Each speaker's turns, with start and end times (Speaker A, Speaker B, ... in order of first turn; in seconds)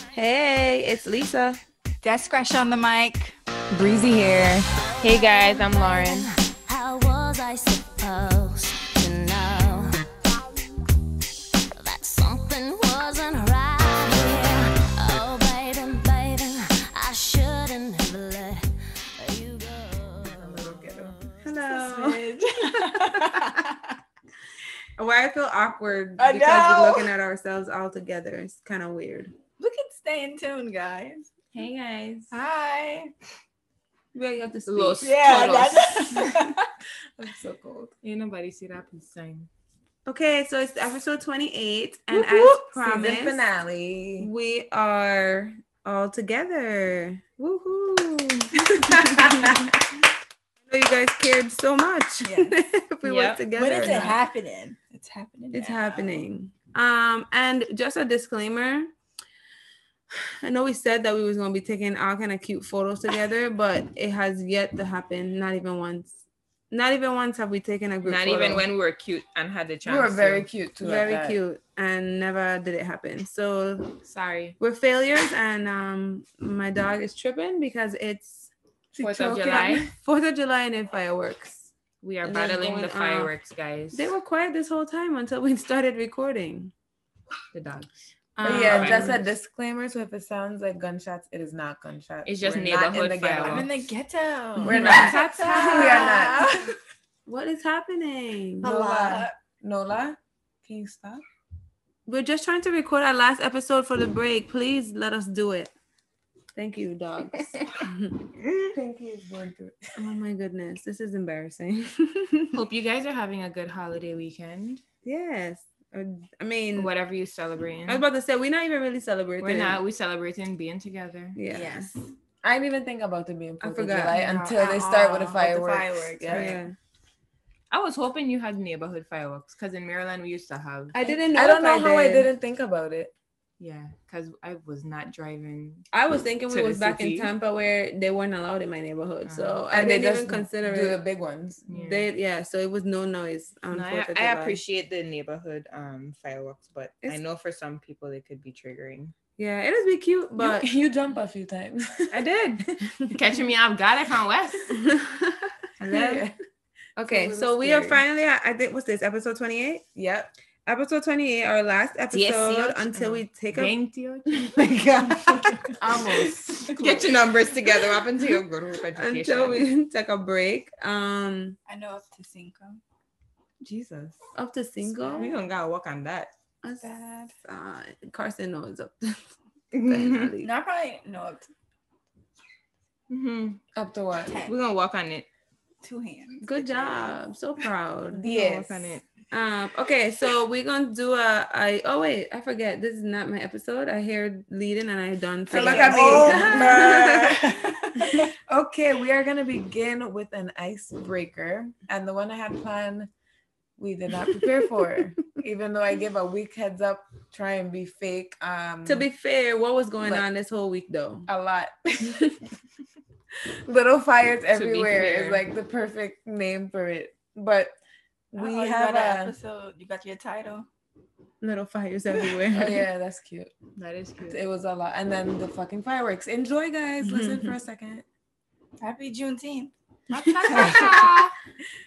Speaker A: 0.1-1.6, 21.4-22.2, 22.8-23.6, 25.0-29.3, 34.1-35.7, 40.0-43.4, 44.2-49.7, 50.7-54.2, 55.5-58.9, 60.4-66.2, 66.7-68.7, 70.8-74.0, 74.6-78.5, 79.4-81.7, 82.2-83.3, 83.9-86.7, 88.4-89.2, 94.7-96.4, 97.3-98.7, 102.1-105.7, 106.6-108.2, 110.0-112.6, 115.0-116.9, 117.9-119.8, 121.3-121.9, 123.6-124.2, 126.3-126.7, 130.9-132.3, 135.9-141.0, 141.7-144.6, 149.4-150.7, 154.7-156.2, 157.0-159.9, 160.7-163.8, 164.5-165.6, 168.9-171.6, 174.3-175.3, 176.6-179.2, 179.8-180.5, 186.4-188.2, 189.3-197.4, 208.9-211.3, 221.4-222.8, 227.0-227.5, 230.2-230.8
Speaker B: 2.0-3.4, 21.7-23.9, 26.2-27.1, 29.6-31.3, 32.3-33.1, 35.0-36.7, 52.2-52.5, 53.5-56.2, 93.4-96.7, 98.6-99.3, 121.5-122.1, 124.1-126.5, 166.6-167.1, 171.7-172.8, 176.8-177.3, 180.4-181.5, 184.2-184.6, 185.8-187.1, 195.5-198.2, 218.4-220.7, 228.8-231.3
Speaker C: 3.7-4.7, 20.5-21.1, 37.2-37.9, 42.1-44.3, 69.8-71.4, 78.9-79.9, 88.4-93.7, 94.6-96.5, 98.6-101.2, 108.7-109.8, 122.4-126.6, 131.3-133.1, 139.7-141.6, 150.3-153.0, 155.8-156.3, 157.6-157.9, 159.9-160.3, 165.8-166.7, 183.8-184.4, 188.1-189.0, 195.5-197.3, 198.0-203.1, 203.8-209.1, 211.3-212.4, 213.6-217.8, 218.3-219.3, 222.5-223.5, 224.3-228.0, 230.5-231.1
Speaker D: 4.8-10.0, 11.8-20.8
Speaker E: 5.0-6.2, 20.6-21.2, 31.5-32.3, 34.7-36.0, 38.0-39.5, 53.0-53.4, 68.0-71.1, 74.0-74.6, 79.0-79.8, 82.0-84.1, 87.5-89.2, 92.2-93.7, 94.7-95.4, 108.5-108.7, 112.5-114.8, 116.8-118.0, 119.4-121.4, 127.7-130.9, 133.6-135.9, 136.5-137.3, 139.2-139.6, 141.7-142.1, 143.7-149.1, 152.1-154.8, 157.1-157.9, 162.1-165.7, 166.6-169.7, 173.6-174.2, 175.0-176.3, 179.7-180.3, 183.1-183.6, 184.4-185.2, 188.2-189.0, 214.5-215.4, 223.8-224.4